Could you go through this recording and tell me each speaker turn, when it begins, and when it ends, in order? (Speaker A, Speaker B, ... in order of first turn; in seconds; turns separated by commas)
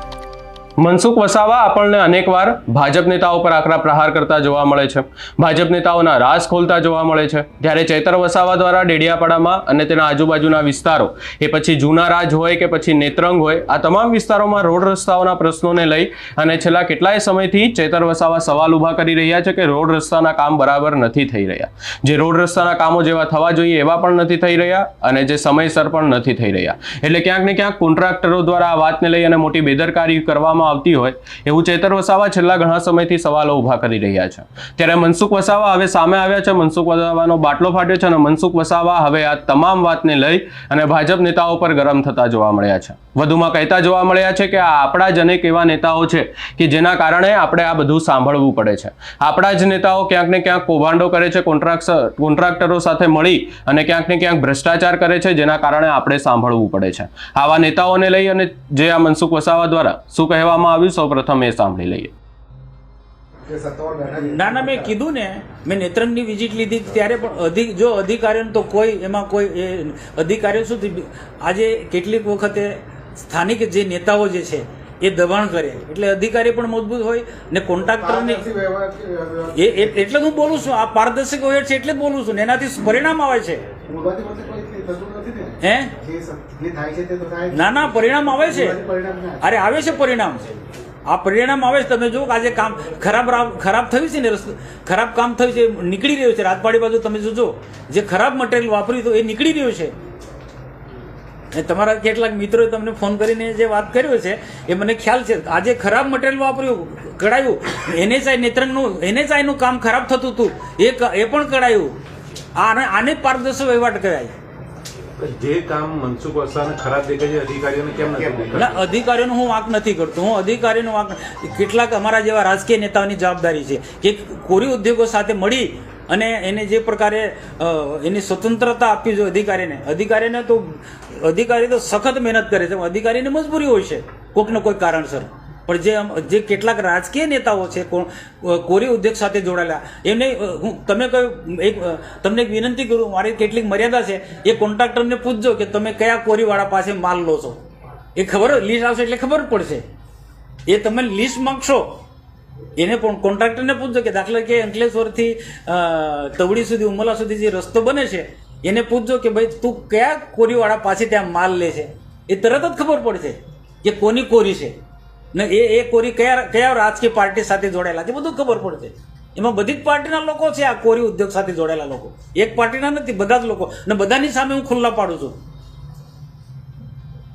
Speaker A: 0.8-62.1, Speaker B: 63.5-64.9, Speaker C: 64.2-78.5, Speaker B: 78.0-80.0, Speaker C: 79.5-83.7, Speaker B: 83.8-89.6, Speaker C: 85.6-85.9, Speaker C: 87.5-88.8, Speaker C: 89.4-90.5, Speaker C: 91.0-100.0, Speaker C: 101.5-112.0, Speaker C: 112.5-114.3, Speaker D: 115.2-118.8, Speaker C: 118.5-147.6, Speaker C: 148.2-149.8, Speaker C: 150.7-152.0, Speaker C: 152.8-164.8, Speaker C: 165.3-175.4